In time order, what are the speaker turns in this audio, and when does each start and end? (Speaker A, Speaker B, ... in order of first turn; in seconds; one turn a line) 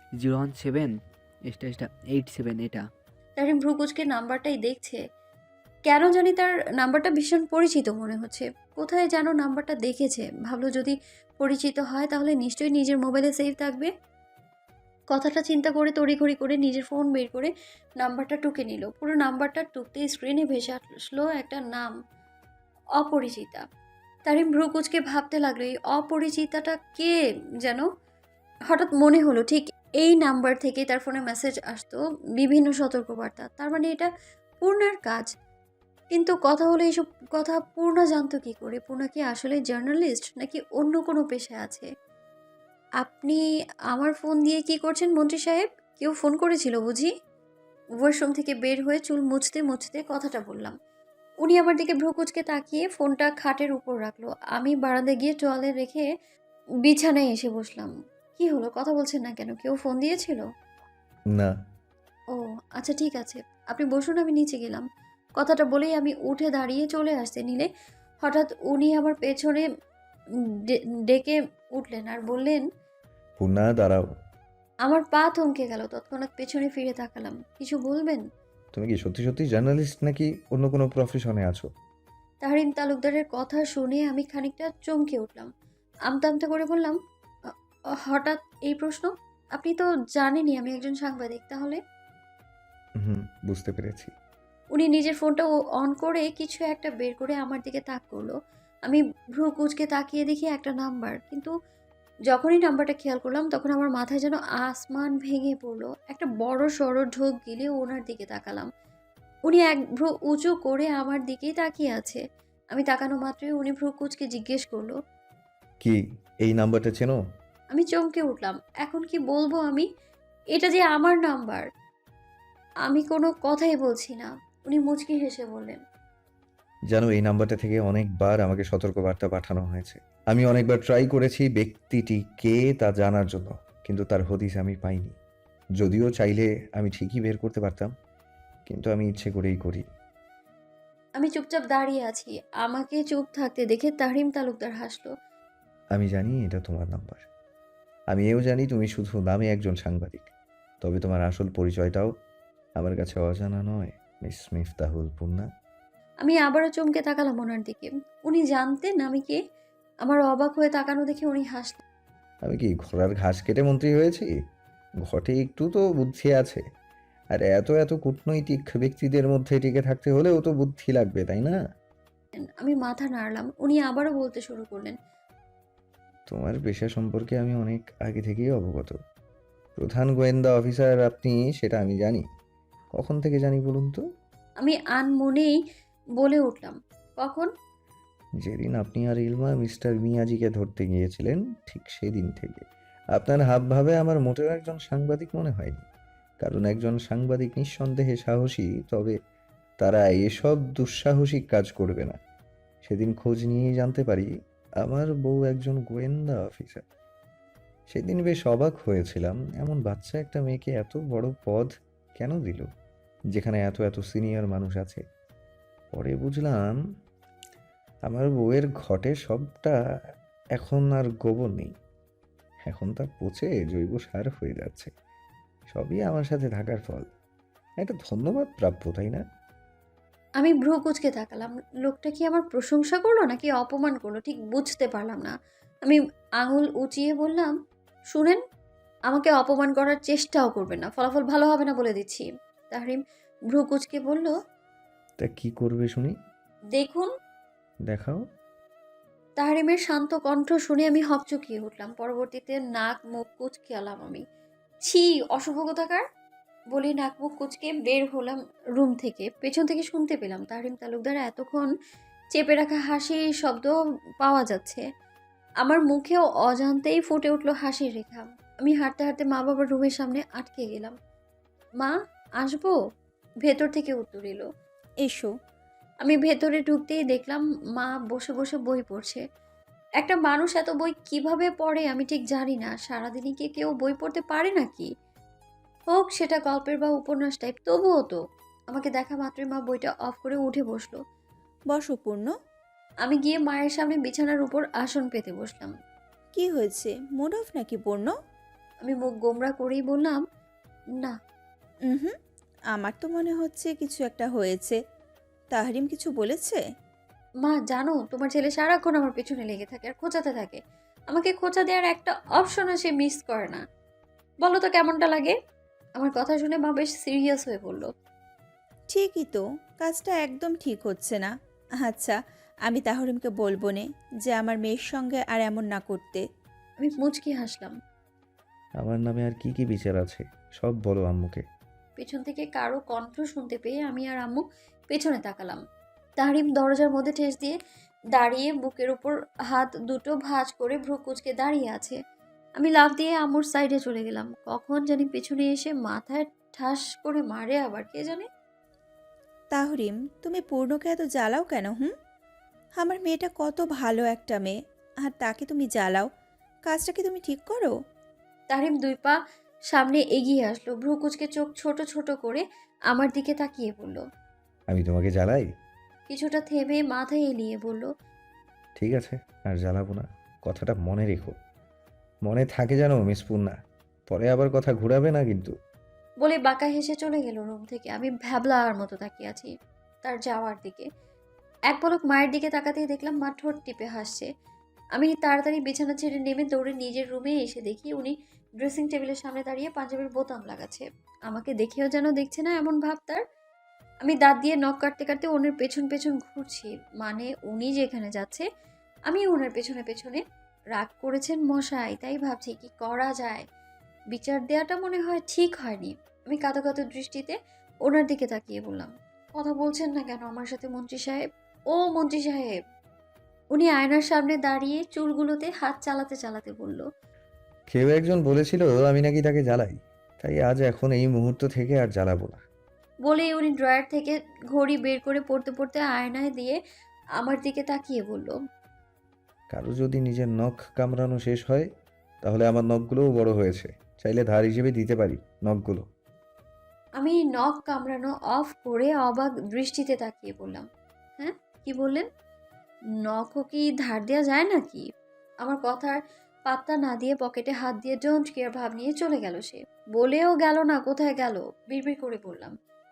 Speaker A: 0.2-0.9
Speaker A: 1.5-2.8
Speaker B: 3.4-5.0
Speaker B: 5.9-13.9
Speaker B: 15.1-21.9
Speaker B: 23.0-23.6
Speaker B: 24.3-27.8
Speaker B: 28.7-34.1
Speaker B: 34.6-35.3
Speaker B: 36.1-41.9
Speaker B: 43.0-43.4
Speaker B: 43.9-47.1
Speaker B: 48.0-50.7
Speaker B: 51.4-56.1
Speaker B: 56.8-60.4
Speaker B: 62.3-64.8
Speaker B: 65.4-67.7
Speaker B: 68.2-69.6
Speaker B: 71.1-72.6
Speaker C: 73.4-74.1
Speaker B: 74.9-78.2
Speaker C: 78.7-81.7
Speaker B: 82.4-85.5
Speaker B: 86.1-87.0
Speaker B: 88.1-91.8
Speaker C: 93.0-94.1
Speaker B: 94.7-98.3
Speaker B: 98.8-101.5
Speaker B: 102.3-108.7
Speaker B: 109.5-112.2
Speaker B: 112.7-114.9
Speaker C: 115.8-117.2
Speaker B: 117.7-119.9
Speaker B: 120.5-121.7
Speaker B: 122.9-125.8
Speaker C: 126.9-135.1
Speaker C: 135.8-137.9
Speaker C: 138.7-139.8
Speaker B: 141.2-145.1
Speaker C: 145.9-147.2
Speaker C: 148.1-150.3
Speaker C: 150.8-152.1
Speaker C: 152.8-155.5
Speaker B: 156.2-159.4
Speaker B: 160.0-161.8
Speaker C: 162.4-164.3
Speaker C: 165.0-166.6
Speaker C: 167.3-171.6
Speaker B: 172.4-174.9
Speaker C: 176.3-179.0
Speaker C: 179.8-182.2
Speaker C: 182.9-184.0
Speaker B: 184.6-185.6
Speaker B: 186.2-187.5
Speaker C: 188.4-192.6
Speaker C: 193.1-195.8
Speaker C: 196.4-199.2
Speaker C: 199.8-202.2
Speaker C: 202.8-204.3
Speaker C: 204.8-206.8
Speaker C: 207.9-212.7
Speaker C: 213.3-215.0
Speaker C: 215.9-216.8
Speaker C: 218.1-219.8
Speaker C: 220.6-221.7
Speaker C: 222.7-224.9
Speaker C: 225.7-227.0
Speaker C: 227.8-229.2
Speaker B: 230.4-235.3
Speaker B: 235.8-237.5
Speaker B: 238.1-238.4
Speaker B: 239.1-243.0
Speaker B: 243.5-244.3
Speaker C: 245.2-246.1
Speaker B: 246.7-247.1
Speaker C: 247.9-248.2
Speaker B: 249.4-254.2
Speaker B: 254.8-256.0
Speaker B: 256.7-261.7
Speaker B: 262.3-264.8
Speaker B: 265.6-270.9
Speaker B: 271.8-272.7
Speaker B: 273.4-274.4
Speaker D: 275.0-275.3
Speaker B: 276.0-279.2
Speaker B: 280.0-284.9
Speaker B: 285.9-288.2
Speaker B: 288.7-291.0
Speaker D: 291.7-292.3
Speaker B: 293.0-295.7
Speaker D: 296.3-298.1
Speaker B: 298.8-300.2
Speaker D: 301.9-302.1
Speaker D: 302.7-304.8
Speaker D: 305.5-306.6
Speaker B: 307.4-310.6
Speaker B: 311.1-313.6
Speaker B: 314.4-315.3
Speaker B: 316.0-317.9
Speaker D: 318.9-326.2
Speaker B: 326.8-327.7
Speaker C: 328.8-331.4
Speaker B: 332.0-335.6
Speaker B: 336.2-337.6
Speaker B: 338.1-342.0
Speaker B: 342.6-348.2
Speaker D: 349.5-351.9
Speaker D: 352.8-356.1
Speaker D: 356.7-357.7
Speaker B: 358.5-359.2
Speaker B: 359.7-364.0
Speaker C: 364.7-365.5
Speaker B: 366.1-367.9
Speaker C: 368.8-371.3
Speaker C: 372.3-373.6
Speaker C: 374.1-375.5
Speaker B: 376.2-379.5
Speaker B: 380.0-380.8
Speaker B: 381.7-384.3
Speaker B: 385.0-393.2
Speaker B: 394.0-398.4
Speaker B: 399.1-400.2
Speaker B: 400.7-403.4
Speaker B: 404.1-407.3
Speaker B: 407.9-411.2
Speaker B: 411.7-412.6
Speaker B: 413.5-416.8
Speaker C: 417.7-422.4
Speaker B: 423.0-426.6
Speaker B: 427.2-428.3
Speaker C: 429.5-431.7
Speaker C: 432.2-435.9
Speaker B: 437.0-440.6
Speaker B: 441.2-442.0
Speaker B: 443.1-444.8
Speaker B: 445.4-446.0
Speaker B: 446.5-452.5